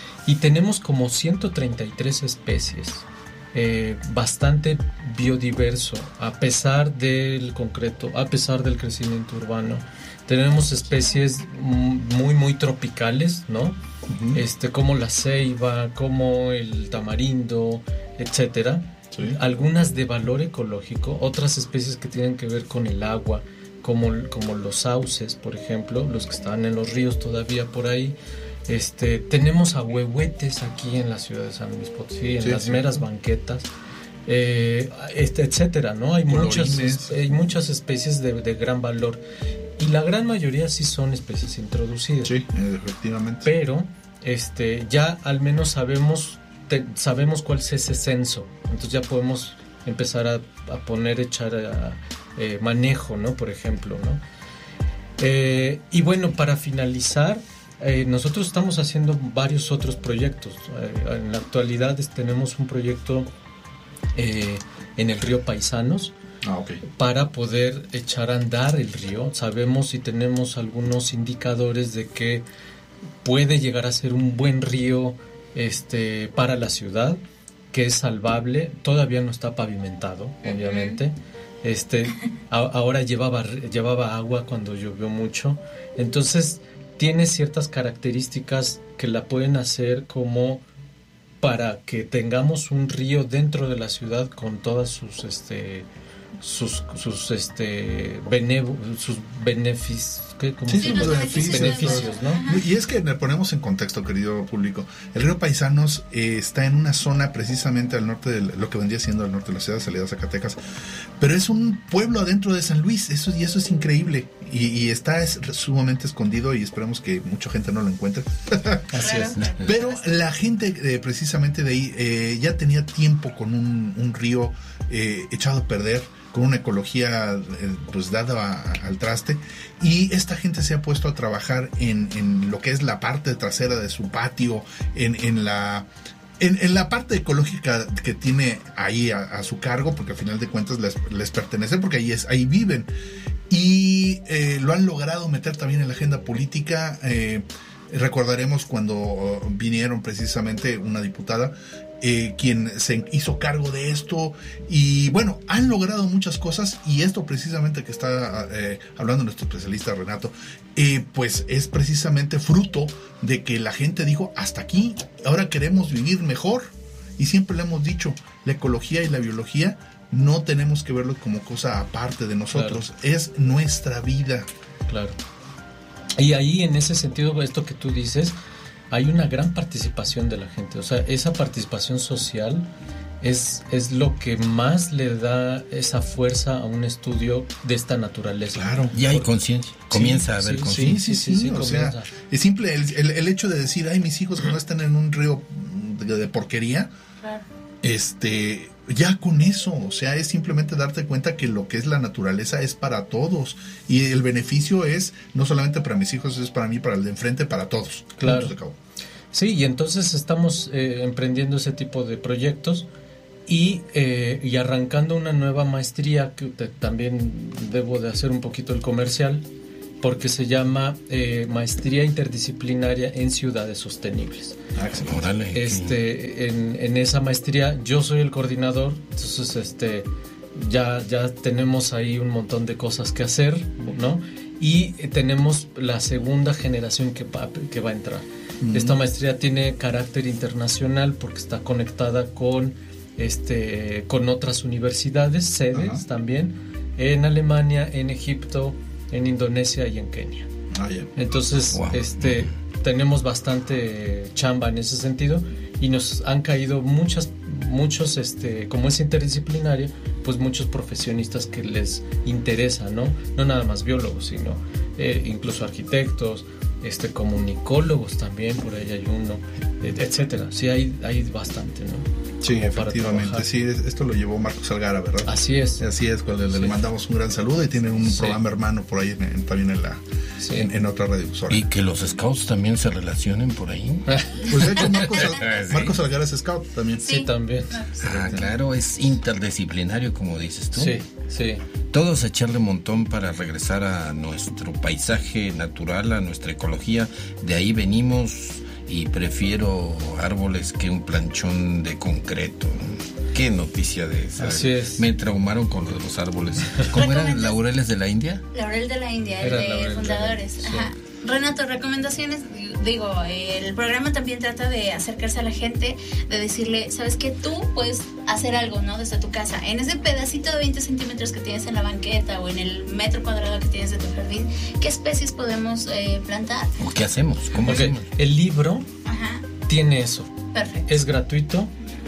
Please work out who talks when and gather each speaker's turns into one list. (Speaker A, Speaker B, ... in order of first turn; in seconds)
Speaker A: 0.2-13.8, 14.3-33.7, 34.2-39.2, 39.8-42.3, 43.4-54.2, 55.2-63.3, 64.1-66.1, 66.9-72.4, 73.2-77.2, 77.7-90.6, 91.4-95.9, 96.4-102.4, 118.9-119.3, 172.5-172.8, 174.9-175.2, 176.2-178.3, 178.9-182.7, 183.2-189.2, 189.9-192.1, 208.2-208.5, 209.3-212.9, 213.5-219.4, 220.0-224.6, 225.5-250.5, 251.2-273.4, 275.2-275.8, 278.0-278.4, 280.4-280.7, 284.1-284.5, 287.0-287.8, 290.7-291.6, 304.4-305.0, 309.4-310.9, 327.6-328.9, 329.6-330.3, 330.9-331.7
Speaker B: 14.1-14.4, 19.1-19.4, 32.4-33.0, 36.3-37.3, 42.2-43.5, 66.4-66.8, 100.7-110.6, 111.2-119.0, 119.6-135.9, 136.4-142.9, 143.5-174.5, 188.5-189.2, 190.6-196.9, 197.8-208.8, 224.7-225.2, 238.6-238.9, 245.7-246.0, 250.7-251.1, 272.4-280.0, 280.5-281.6, 284.5-287.1, 288.1-288.4
Speaker C: 80.4-81.0, 100.8-102.6, 119.0-120.1, 287.0-288.1, 306.9-307.5, 308.5-326.7, 329.0-329.4, 330.5-331.0
Speaker D: 119.3-119.7, 188.9-191.0, 225.0-226.0, 251.7-252.5, 281.5-286.0, 288.0-291.0, 291.9-308.4, 326.8-328.0